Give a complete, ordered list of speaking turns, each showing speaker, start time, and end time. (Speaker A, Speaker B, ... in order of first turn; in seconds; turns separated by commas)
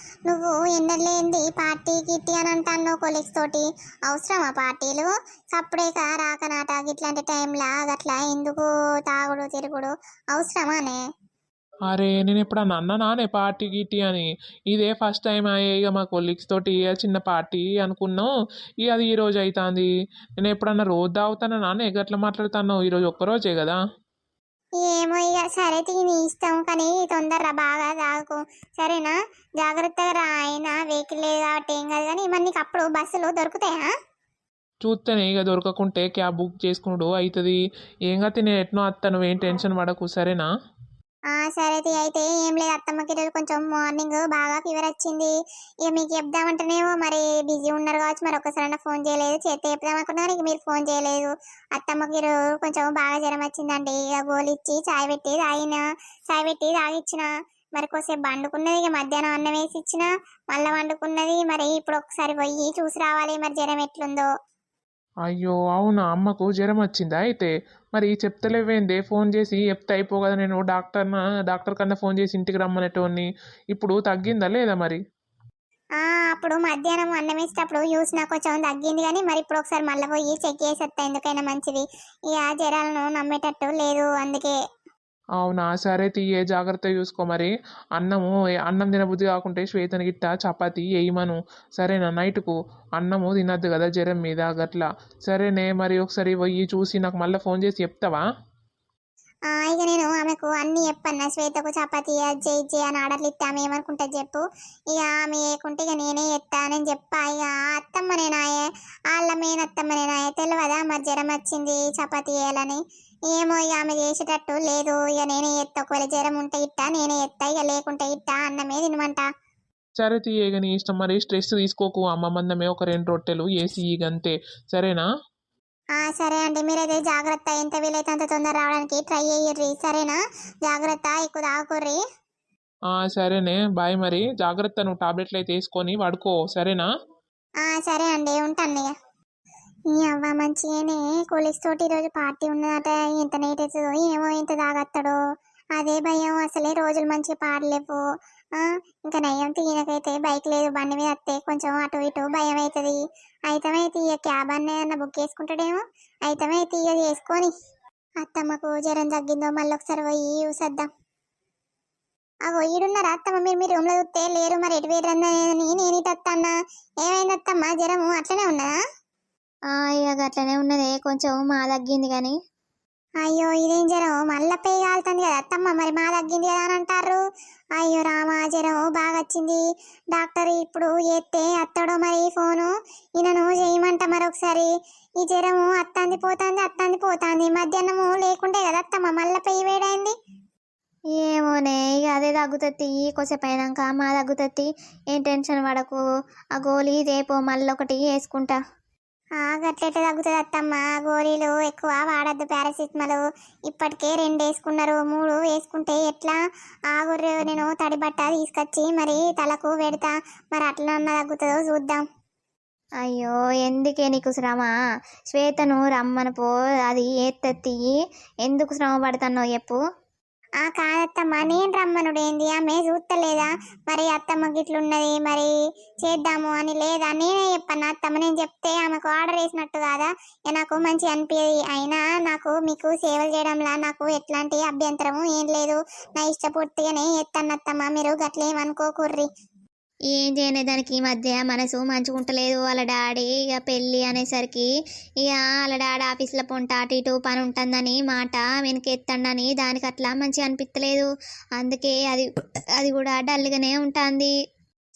Speaker A: 0.3-11.0, Speaker B: 11.9-18.3, Speaker B: 18.8-19.9, Speaker B: 20.4-23.8, Speaker A: 24.8-33.9, Speaker B: 34.8-37.6, Speaker B: 38.1-40.5, Speaker A: 41.3-45.3, Speaker A: 45.9-57.3, Speaker A: 57.8-64.3, Speaker B: 65.3-75.0, Speaker A: 76.0-84.5, Speaker B: 85.4-98.2, Speaker A: 99.5-112.8, Speaker A: 113.3-119.2, Speaker B: 120.0-125.1, Speaker A: 126.0-132.0, Speaker B: 133.0-136.9, Speaker A: 137.6-138.9, Speaker A: 139.9-145.2, Speaker A: 145.8-148.0, Speaker A: 148.6-157.5, Speaker A: 158.2-160.9, Speaker A: 162.5-168.7, Speaker C: 169.7-172.3, Speaker A: 173.2-177.2, Speaker A: 177.8-179.6, Speaker A: 180.2-184.7, Speaker A: 185.2-190.1, Speaker C: 191.1-196.0, Speaker C: 196.6-198.6, Speaker A: 199.4-203.2, Speaker A: 203.7-206.4, Speaker A: 206.9-212.0, Speaker C: 213.0-214.7, Speaker C: 215.3-219.8, Speaker A: 220.6-225.5, Speaker A: 226.0-239.3, Speaker C: 240.1-244.7, Speaker C: 245.2-252.3, Speaker C: 252.8-254.3